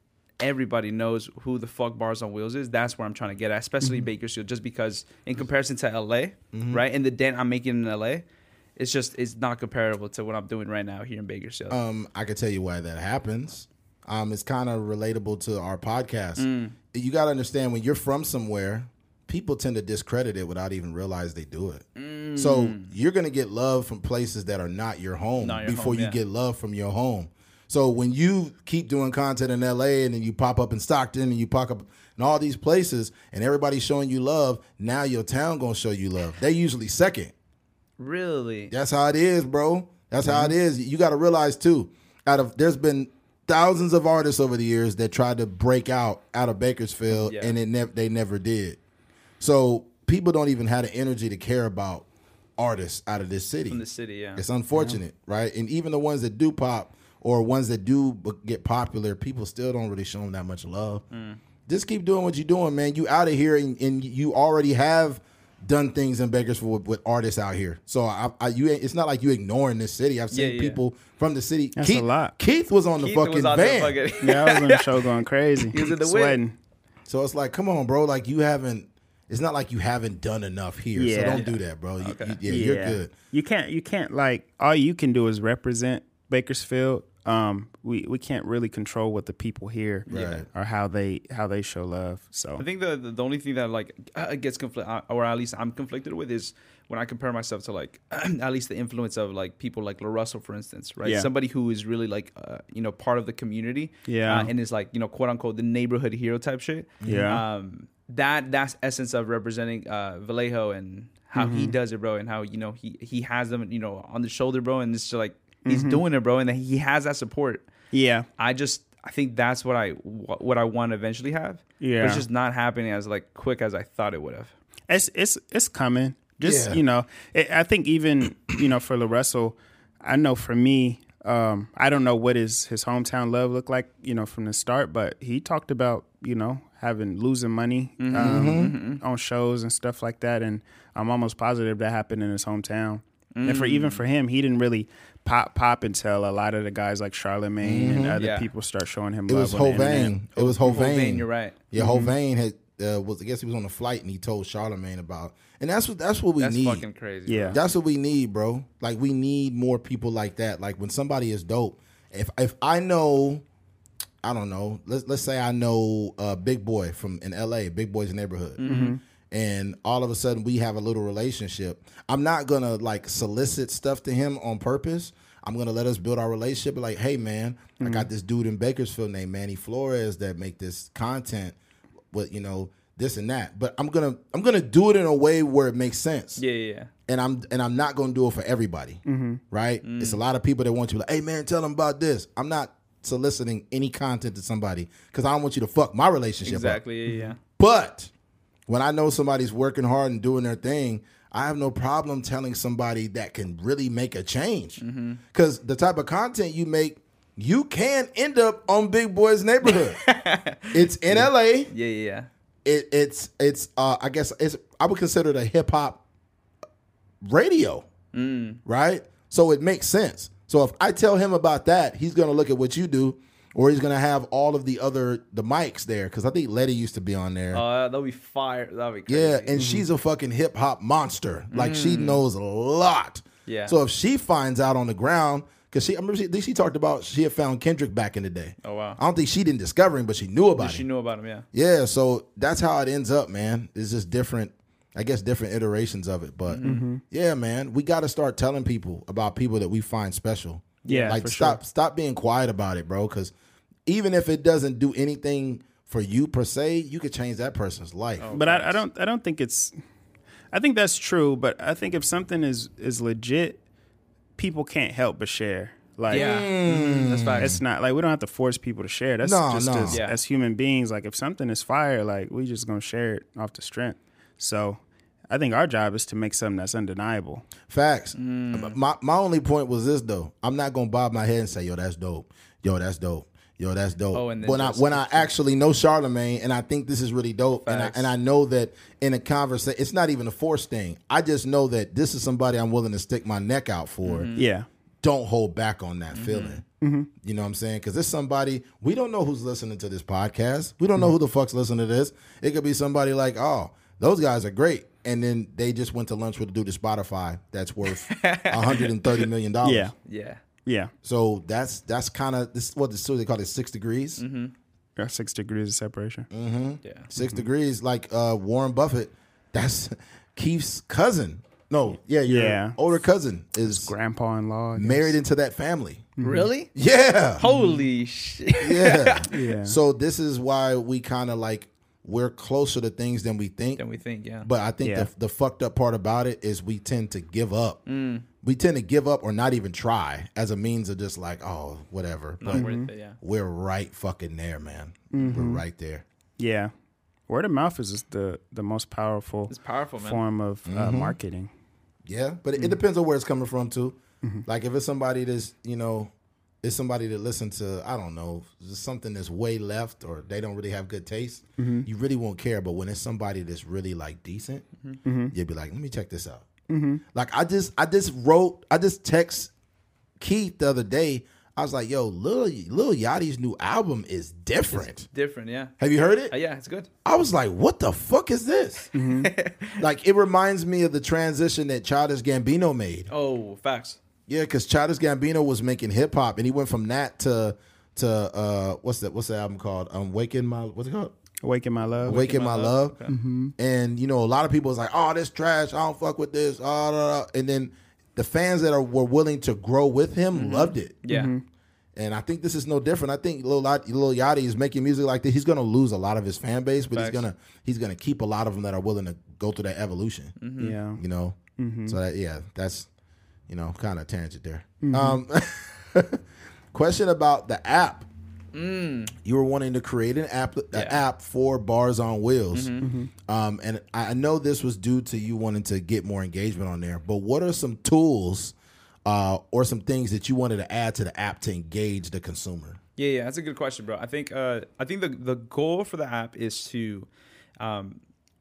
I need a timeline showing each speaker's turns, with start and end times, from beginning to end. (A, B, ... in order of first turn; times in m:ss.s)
0:00.4-0:08.2 A
0:03.8-0:04.1 B
0:06.5-0:06.8 C
0:08.8-0:11.8 A
0:11.7-0:21.8 C
0:16.4-0:16.8 A
0:22.0-0:22.9 A
0:22.4-0:37.3 C
0:25.4-0:26.2 A
0:38.0-0:38.7 A
0:38.7-0:48.8 C
0:47.1-0:47.6 A
0:49.4-0:52.1 C
0:52.6-0:53.8 C
0:53.7-0:54.4 A
0:54.4-1:01.0 C
1:01.1-1:01.4 A
1:01.7-1:14.0 C
1:10.3-1:10.8 A
1:11.8-1:12.4 B
1:13.0-1:15.0 A
1:14.2-1:16.6 B
1:15.6-1:16.4 A
1:17.1-1:23.1 C
1:21.0-1:21.4 B
1:21.3-1:22.4 A
1:22.4-1:32.6 B
1:30.1-1:30.4 A
1:30.1-1:30.4 C
1:32.6-1:57.7 A
1:41.0-1:41.3 B
1:44.1-1:44.5 B
1:47.0-1:47.3 C
1:47.0-1:47.4 B
1:51.4-1:51.7 B
1:55.6-1:56.0 B
1:57.9-1:58.3 B
1:58.4-2:04.5 A
2:01.8-2:02.2 B
2:04.9-2:30.1 B
2:06.4-2:06.8 C
2:18.0-2:19.0 A
2:18.2-2:18.8 C
2:23.3-2:24.0 A
2:27.6-2:28.2 C
2:28.2-2:28.5 A
2:29.3-2:36.8 C
2:30.3-2:31.6 A
2:31.8-2:32.1 B
2:36.4-2:37.6 A
2:37.3-2:37.6 B
2:37.5-2:43.4 C
2:44.2-2:48.7 C
2:48.6-2:49.0 A
2:48.6-2:49.0 B
2:49.3-3:01.5 C
2:57.8-2:58.1 B
3:02.1-3:06.4 C
3:06.4-3:06.9 A
3:07.1-3:16.8 C
3:09.0-3:09.4 B
3:09.8-3:10.2 A
3:16.4-3:17.4 A
3:17.1-3:17.3 B
3:17.6-3:18.1 C
3:18.7-3:24.8 C
3:24.8-3:25.2 A
3:25.3-3:30.0 C
3:29.6-3:32.3 A
3:30.7-3:31.7 C
3:32.6-3:36.0 C
3:37.2-3:37.9 C
3:38.1-3:38.6 A
3:38.6-3:47.6 C
3:47.5-3:49.5 A
3:49.1-4:00.8 C
3:49.5-3:49.9 B
3:51.5-3:52.2 A
3:53.5-3:53.8 A
3:58.6-3:59.0 A
4:00.6-4:01.4 A
4:01.5-4:13.3 C
4:06.5-4:06.8 A
4:06.6-4:07.0 B
4:10.8-4:11.2 A
4:10.9-4:11.6 B
4:13.8-4:18.3 C
4:18.2-4:18.8 A
4:18.3-4:19.7 B
4:20.5-4:23.6 B
4:24.4-4:26.3 B
4:26.1-4:27.6 A
4:26.1-4:27.6 C
4:27.4-4:37.5 B
4:29.2-4:30.0 C
4:29.9-4:30.2 A
4:37.7-4:54.3 C
4:38.2-4:38.8 A
4:44.1-4:45.3 A
4:47.6-4:48.1 A
4:54.0-4:54.5 A
4:54.4-4:54.7 B
4:55.0-4:56.6 C
4:56.1-4:56.6 A
4:56.8-4:57.1 B
4:57.2-5:09.9 C
5:08.0-5:09.3 A
5:09.6-5:09.9 B
5:10.0-5:10.4 A
5:10.6-5:10.9 B
5:11.0-5:14.2 C
5:14.2-5:14.5 A
5:15.0-5:16.3 B
5:16.3-5:23.9 C
5:16.8-5:17.1 A
5:22.2-5:22.8 B
5:23.6-5:25.2 B
5:24.8-5:26.1 C
5:26.2-5:26.5 B
5:26.2-5:26.7 A
5:26.7-5:27.4 C
5:27.4-5:29.3 A
5:27.4-5:27.8 B
5:28.6-5:33.8 C
5:29.3-5:29.8 B
5:33.8-5:34.5 A
5:34.4-5:37.8 C
5:34.8-5:35.1 B
5:37.9-5:38.2 A
5:38.4-5:42.7 C
5:42.4-5:43.2 A
5:42.5-5:42.9 B
5:43.2-5:46.0 C
5:45.1-5:45.6 B
5:46.4-5:46.7 B
5:47.3-5:51.5 B
5:49.5-5:50.2 A
5:50.7-5:51.2 C
5:52.0-5:56.1 C
5:56.6-6:04.6 C
6:01.6-6:01.9 B
6:05.0-6:05.3 B
6:05.3-6:06.5 C
6:06.7-6:07.0 B
6:07.1-6:09.5 C
6:10.2-6:15.0 C
6:14.7-6:15.7 A
6:15.8-6:16.3 C
6:16.3-6:16.9 A
6:17.0-6:18.9 C
6:18.9-6:19.3 B
6:19.0-6:19.8 A
6:19.8-6:23.1 C
6:23.1-6:24.0 A
6:24.3-6:31.1 C
6:31.4-6:32.2 B
6:32.0-6:33.1 A
6:32.0-6:33.0 C
6:33.1-6:33.5 B
6:33.6-6:41.0 C
6:40.3-6:41.3 A
6:41.1-6:41.4 B
6:42.0-6:50.3 C
6:46.9-6:47.2 A
6:50.4-6:50.8 A
6:50.6-6:51.0 B
6:51.0-6:52.9 C
6:51.6-6:52.0 B
6:53.5-6:56.2 C
6:54.8-6:55.2 B
6:56.7-6:58.1 C
6:58.5-6:59.1 A
6:59.2-7:08.5 C
7:00.7-7:01.0 A
7:02.5-7:02.9 A
7:02.8-7:03.1 B
7:09.0-7:12.8 C
7:13.0-7:17.1 A
7:17.6-7:18.0 A